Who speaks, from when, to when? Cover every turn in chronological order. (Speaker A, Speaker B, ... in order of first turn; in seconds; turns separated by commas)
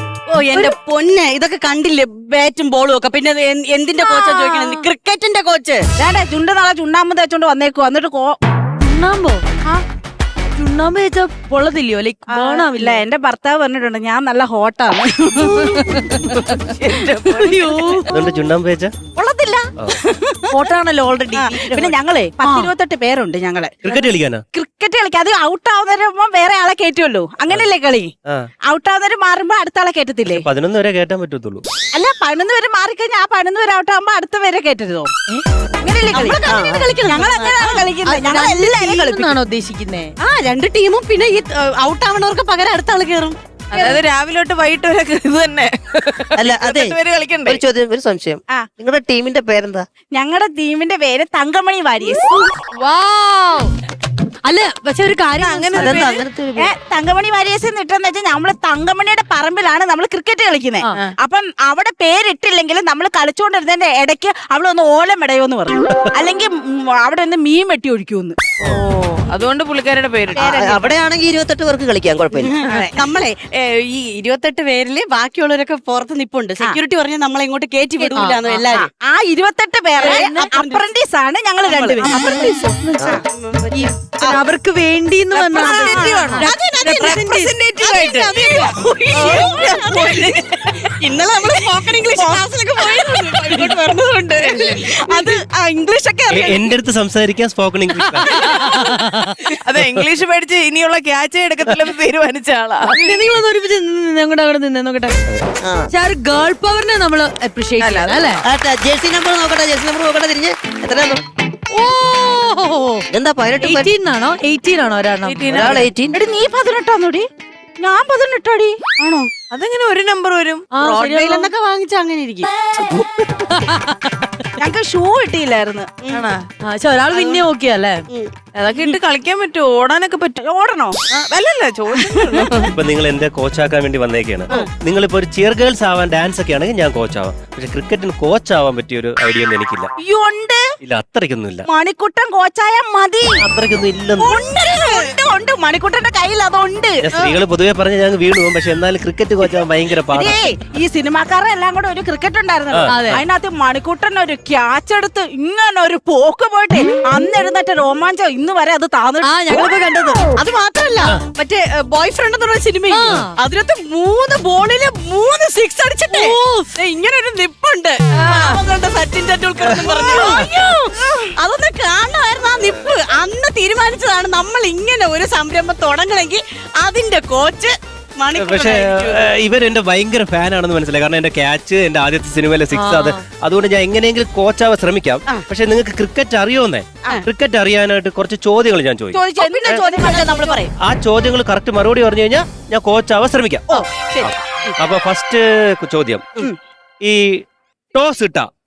Speaker A: 0.3-5.9, Speaker B: 4.0-4.9, Speaker C: 6.0-8.4, Speaker B: 8.8-9.4, Speaker B: 10.6-13.0, Speaker C: 12.3-16.2, Speaker B: 15.6-16.4, Speaker D: 16.3-17.9, Speaker B: 17.3-18.1, Speaker E: 18.1-18.9, Speaker C: 19.2-20.6, Speaker B: 20.5-22.7, Speaker C: 21.4-28.1, Speaker E: 23.8-24.4, Speaker C: 28.7-30.5, Speaker E: 30.3-31.6, Speaker C: 31.9-35.1, Speaker C: 35.8-39.3, Speaker A: 36.1-37.8, Speaker F: 36.5-37.8, Speaker B: 38.0-40.1, Speaker A: 40.2-43.9, Speaker D: 43.8-47.4, Speaker F: 46.4-49.9, Speaker C: 50.1-52.5, Speaker B: 52.7-53.7, Speaker B: 54.5-56.2, Speaker F: 55.7-56.7, Speaker C: 56.6-68.4, Speaker D: 68.9-70.4, Speaker F: 70.3-72.5, Speaker C: 70.4-71.0, Speaker A: 72.4-78.9, Speaker C: 72.6-73.0, Speaker B: 78.2-78.6, Speaker C: 78.7-82.5, Speaker A: 80.0-80.8, Speaker B: 80.0-80.5, Speaker A: 81.7-82.3, Speaker B: 82.0-88.3, Speaker A: 83.3-84.4, Speaker A: 85.3-96.6, Speaker C: 85.5-86.5, Speaker C: 88.0-90.3, Speaker D: 89.2-90.3, Speaker D: 91.4-91.8, Speaker C: 92.2-92.9, Speaker D: 92.6-95.2, Speaker C: 94.5-95.4, Speaker E: 96.3-98.3, Speaker B: 98.2-99.4, Speaker D: 98.3-98.9, Speaker D: 99.7-102.9, Speaker B: 102.9-105.2, Speaker F: 105.3-105.9, Speaker B: 105.9-108.4, Speaker D: 107.8-108.2, Speaker F: 108.4-111.2, Speaker B: 111.7-113.0, Speaker F: 113.1-113.9, Speaker B: 113.6-115.7, Speaker D: 115.3-115.9, Speaker F: 115.5-116.2, Speaker C: 116.1-117.3, Speaker C: 117.8-119.3, Speaker D: 119.5-120.7, Speaker B: 120.7-121.5, Speaker A: 120.8-122.5, Speaker B: 122.8-124.3, Speaker C: 124.6-125.9, Speaker A: 126.0-126.3, Speaker B: 126.6-128.0, Speaker D: 128.6-130.4, Speaker C: 130.4-131.0, Speaker D: 131.1-132.7, Speaker C: 132.1-132.5, Speaker E: 132.7-139.9, Speaker C: 140.0-140.6, Speaker E: 140.8-141.7, Speaker C: 141.7-143.4, Speaker E: 143.4-144.3, Speaker C: 144.2-147.1, Speaker E: 147.0-150.4, Speaker C: 150.1-159.3, Speaker B: 152.9-153.2, Speaker B: 159.2-160.2, Speaker A: 160.4-179.3, Speaker B: 162.9-163.3, Speaker B: 166.1-166.7, Speaker D: 169.6-170.3, Speaker E: 169.7-170.5, Speaker C: 169.9-170.4, Speaker E: 178.3-189.8, Speaker B: 182.7-183.2, Speaker C: 189.1-190.7, Speaker A: 189.4-190.6, Speaker E: 190.8-196.2, Speaker C: 193.7-194.3, Speaker E: 197.0-198.5